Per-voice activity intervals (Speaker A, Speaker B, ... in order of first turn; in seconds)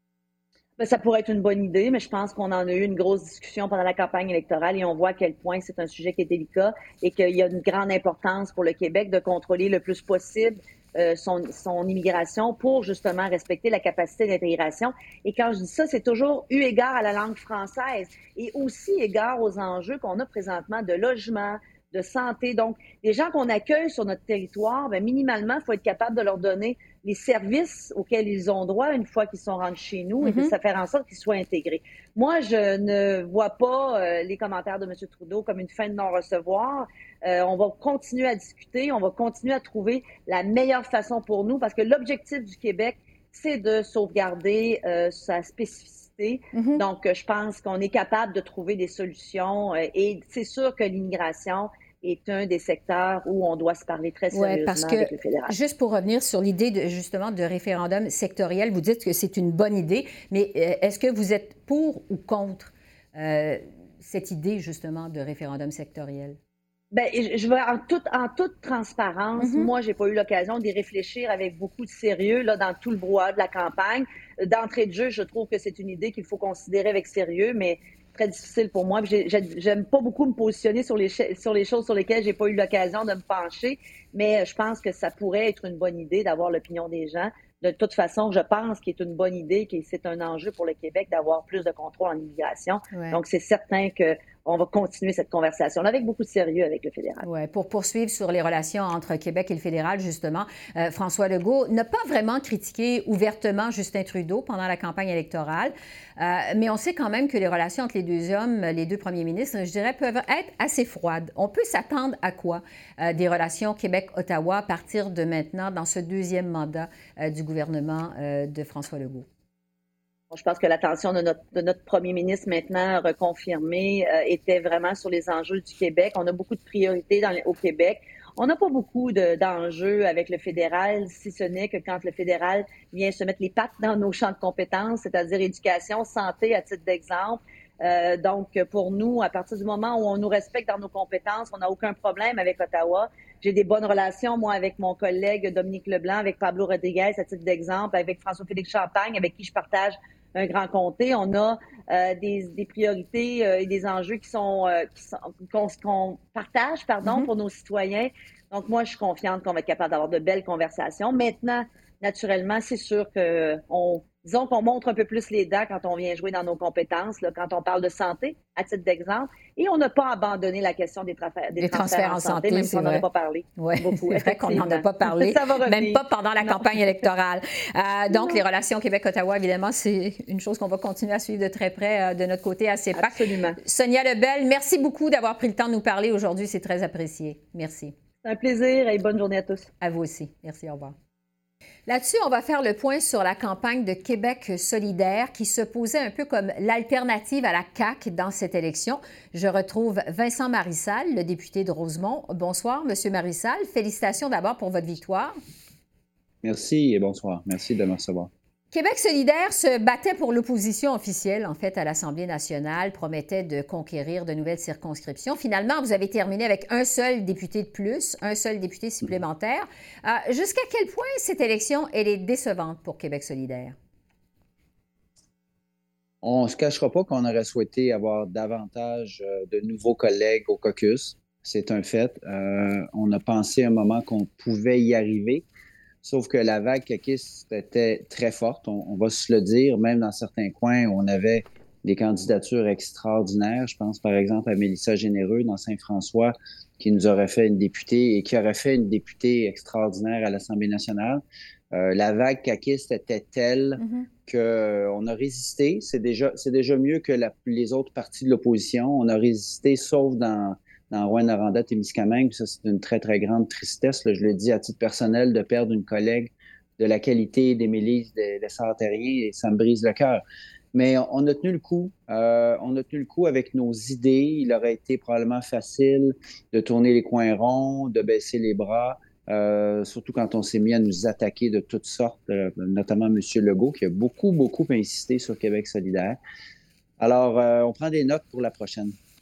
Speaker A: 0.8-55.5, 66.9-97.3, 120.3-176.8, 178.1-178.4, 182.9-183.6, 188.2-189.7
Speaker B: 30.2-30.5, 46.5-46.8, 54.3-66.4, 69.4-69.7, 92.9-93.2, 97.2-119.3, 157.0-157.3, 171.6-173.0, 173.6-187.9, 189.8-190.9, 191.9-205.3, 208.7-223.8, 253.8-254.1
Speaker C: 206.4-208.3, 226.2-235.4, 236.0-270.2, 270.7-286.2, 287.0-289.0